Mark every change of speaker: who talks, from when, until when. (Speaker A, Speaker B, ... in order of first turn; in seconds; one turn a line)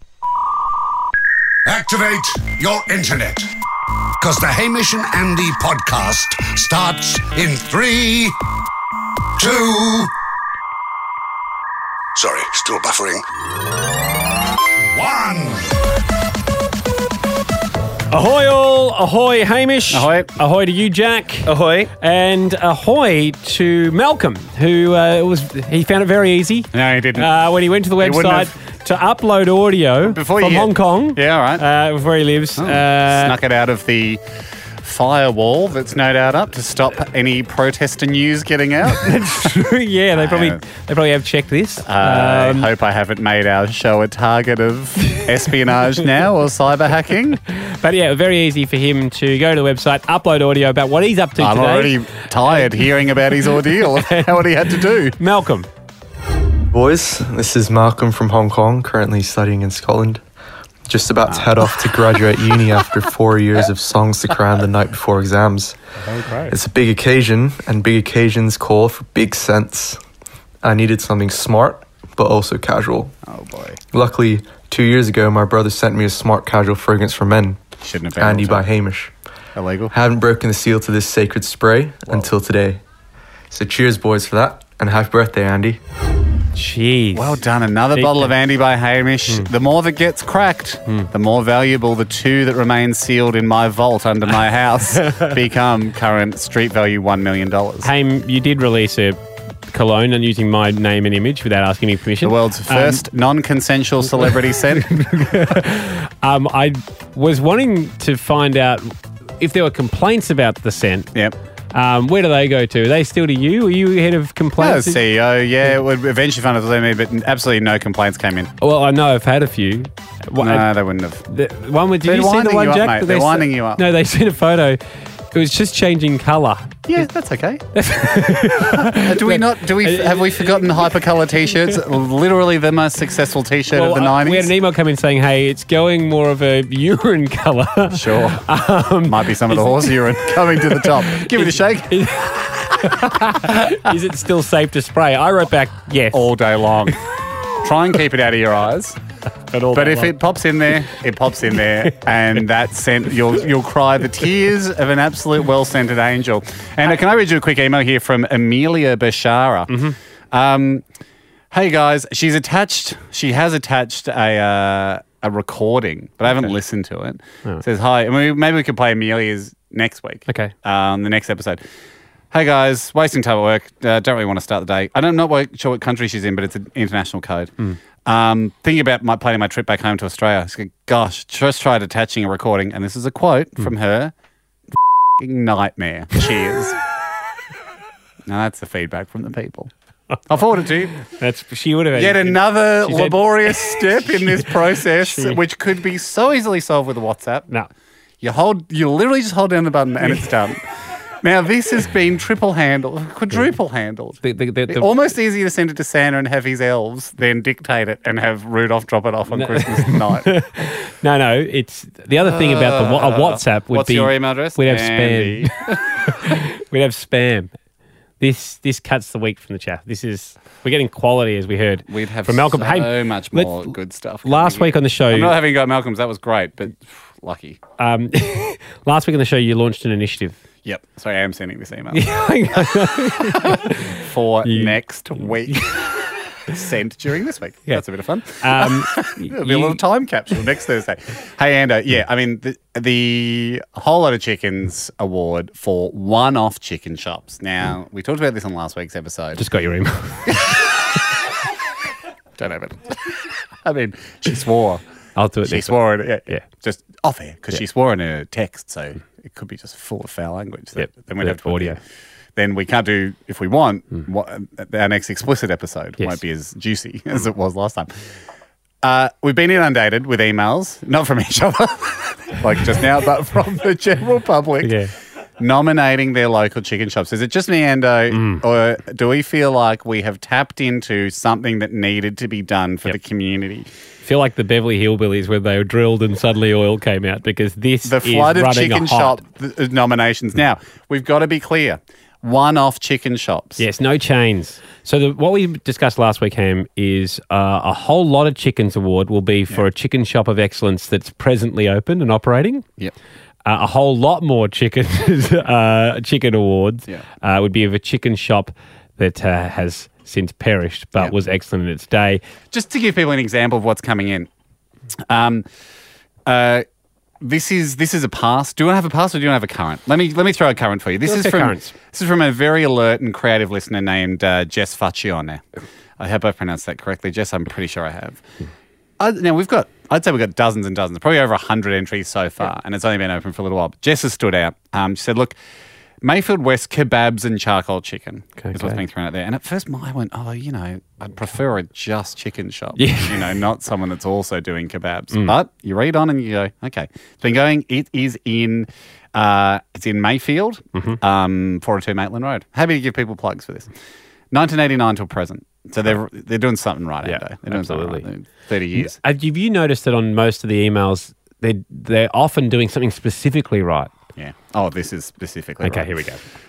Speaker A: 1.6-3.5
Speaker A: 4.2-8.4
Speaker A: 9.4-10.1
Speaker A: 12.2-13.2
Speaker A: 14.9-15.7
Speaker B: 18.1-33.3
Speaker C: 19.9-20.3
Speaker C: 26.7-27.3
Speaker C: 28.0-28.5
Speaker C: 30.0-31.6
Speaker C: 32.6-34.2
Speaker C: 34.8-39.5
Speaker B: 38.9-42.7
Speaker C: 40.1-40.6
Speaker C: 41.8-47.4
Speaker B: 47.5-52.0
Speaker C: 51.4-55.2
Speaker B: 54.0-55.7
Speaker D: 56.7-60.2
Speaker D: 60.9-65.8
Speaker B: 66.1-66.5
Speaker D: 66.5-70.0
Speaker D: 70.6-73.1
Speaker C: 73.2-73.8
Speaker D: 73.9-77.6
Speaker C: 77.8-78.6
Speaker D: 78.2-79.1
Speaker C: 79.5-79.9
Speaker D: 79.9-82.8
Speaker D: 83.5-85.8
Speaker B: 86.5-87.4
Speaker C: 87.1-97.9
Speaker B: 87.9-88.3
Speaker B: 97.8-103.0
Speaker C: 102.2-105.0
Speaker B: 104.9-111.1
Speaker B: 111.7-115.0
Speaker C: 114.6-118.5
Speaker B: 118.6-120.7
Speaker C: 120.4-121.2
Speaker B: 121.3-124.8
Speaker C: 122.0-123.8
Speaker B: 125.3-127.0
Speaker C: 126.9-127.6
Speaker B: 127.7-130.9
Speaker C: 128.6-134.5
Speaker B: 133.7-146.3
Speaker C: 137.9-138.4
Speaker C: 139.0-141.9
Speaker C: 146.1-147.0
Speaker C: 147.6-149.0
Speaker B: 149.5-150.1
Speaker C: 149.7-159.8
Speaker B: 159.7-160.0
Speaker C: 160.3-160.8
Speaker C: 161.5-171.6
Speaker B: 170.3-170.5
Speaker C: 172.3-177.5
Speaker C: 178.1-184.1
Speaker C: 185.2-186.8
Speaker C: 188.2-189.7
Speaker C: 190.3-190.9
Speaker B: 191.0-194.5
Speaker C: 191.9-197.5
Speaker B: 195.0-195.4
Speaker C: 198.2-200.6
Speaker C: 201.2-210.3
Speaker B: 204.2-204.9
Speaker B: 209.3-215.5
Speaker C: 212.2-215.8
Speaker B: 216.1-217.5
Speaker B: 218.2-223.7
Speaker C: 221.9-227.6
Speaker B: 224.2-225.3
Speaker B: 227.8-230.4
Speaker C: 230.6-232.0
Speaker B: 231.9-233.9
Speaker C: 233.9-235.9
Speaker B: 234.4-235.7
Speaker C: 236.5-249.4
Speaker B: 238.4-239.8
Speaker B: 249.4-250.3
Speaker C: 252.4-254.8
Speaker B: 255.2-255.8
Speaker C: 255.5-261.8
Speaker B: 260.8-261.8
Speaker C: 262.4-267.9
Speaker C: 268.8-274.7
Speaker B: 274.6-274.9
Speaker C: 275.4-283.7
Speaker B: 278.1-278.4
Speaker B: 284.0-289.2
Speaker C: 287.8-293.6
Speaker B: 293.6-302.6
Speaker B: 303.4-312.2
Speaker C: 312.5-314.3
Speaker C: 315.1-315.4
Speaker C: 316.2-316.6
Speaker C: 317.2-325.4
Speaker B: 321.0-321.7
Speaker C: 326.0-328.2
Speaker C: 329.0-335.4
Speaker C: 336.0-353.7
Speaker B: 338.4-338.8
Speaker B: 342.8-343.3
Speaker B: 350.7-351.0
Speaker C: 354.3-358.9
Speaker B: 357.0-358.1
Speaker B: 358.7-363.9
Speaker C: 364.1-365.9
Speaker B: 365.6-366.2